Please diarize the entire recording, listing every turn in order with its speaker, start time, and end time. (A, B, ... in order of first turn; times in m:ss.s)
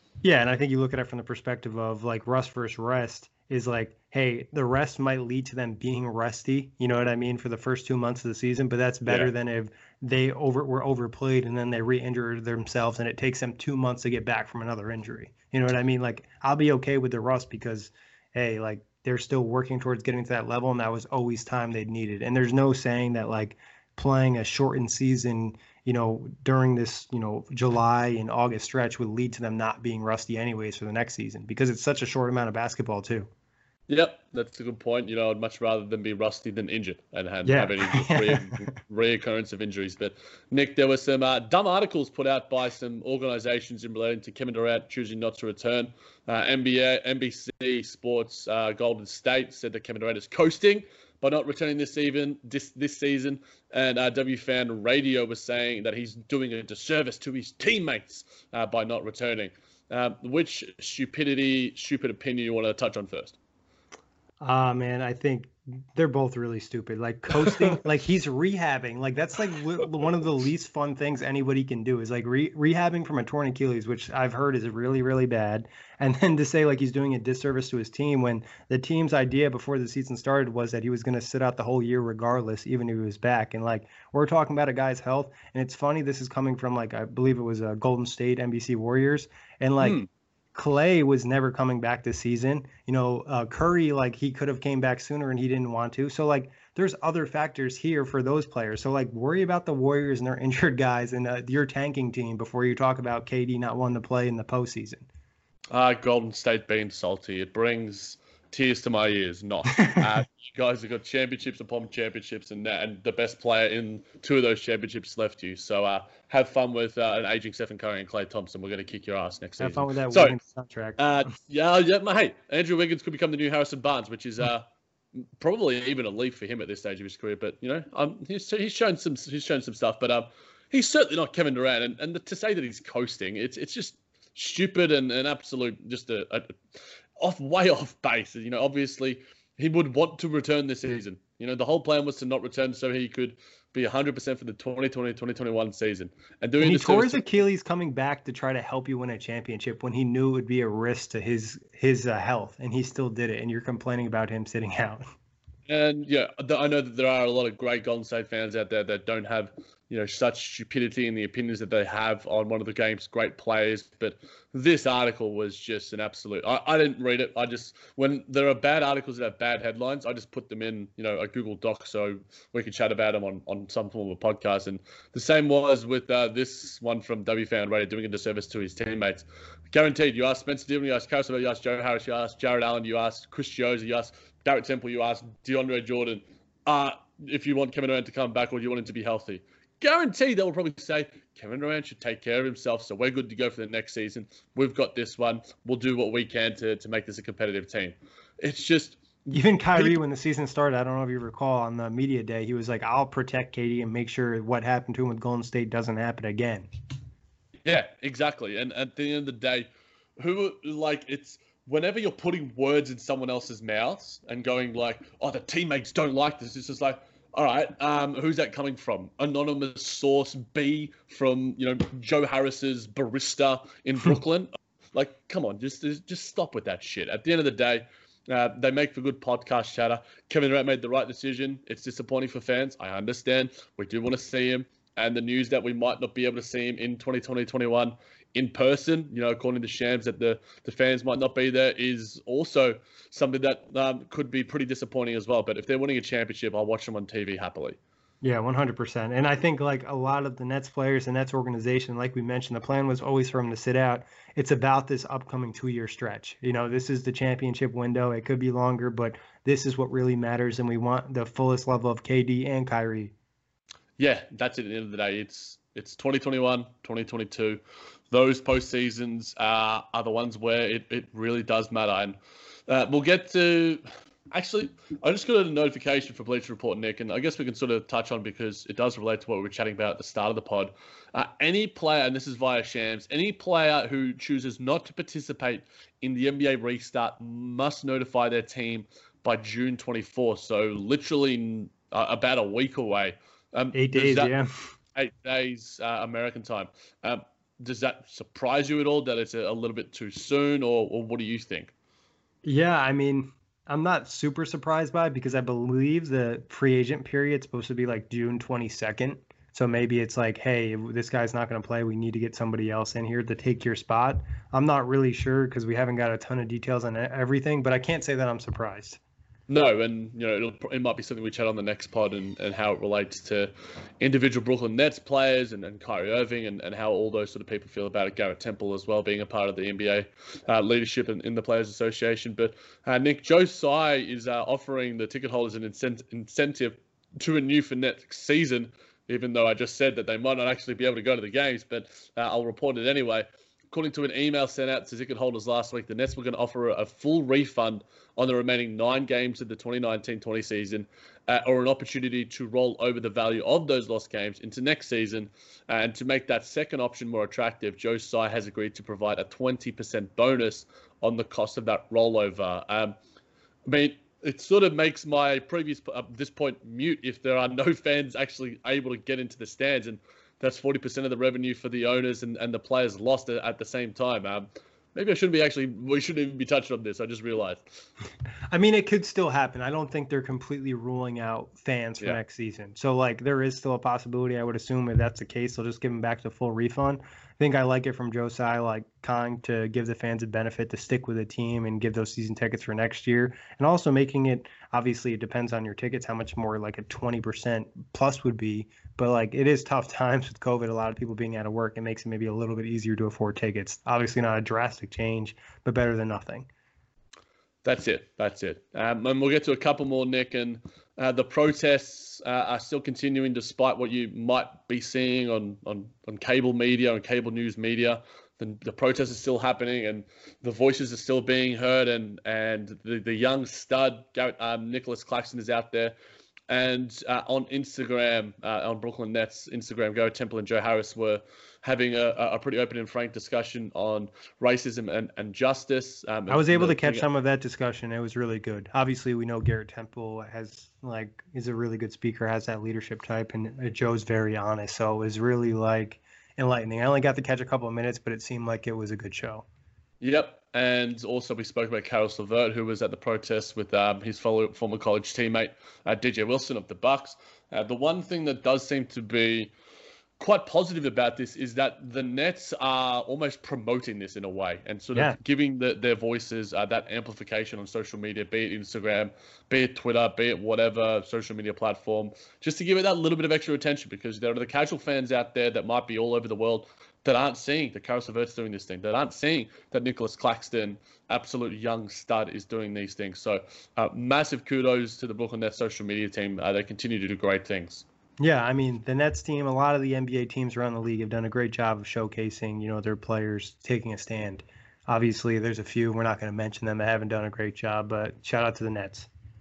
0:00.2-0:33.3 A
0:09.1-0:09.3 B
0:33.9-1:03.4 B
0:37.5-0:38.7 A
1:04.4-1:30.0 A
1:07.5-1:07.8 B
1:29.8-1:30.1 B
1:30.5-1:45.1 A
1:45.7-2:00.4 B
1:49.8-1:50.0 A
1:59.6-2:01.0 A
2:01.0-2:16.6 B
2:17.2-2:27.2 B
2:26.6-2:35.1 A
2:35.7-3:20.0 B
3:19.3-3:26.7 A
3:27.6-3:29.7 B
3:30.2-4:07.8 B
4:08.2-4:23.1 A
4:24.0-4:32.2 B
4:32.7-4:54.3 B
4:53.7-4:54.5 A
4:55.0-5:01.7 B
5:02.4-5:19.0 A
5:19.5-6:03.0 B
6:03.7-6:17.6 B
6:18.5-6:46.5 A
6:47.6-7:06.0 B
7:06.5-7:17.0 B
7:16.3-7:29.4 A
7:30.0-7:39.5 B
7:40.2-8:07.8 B
8:08.2-8:19.1 A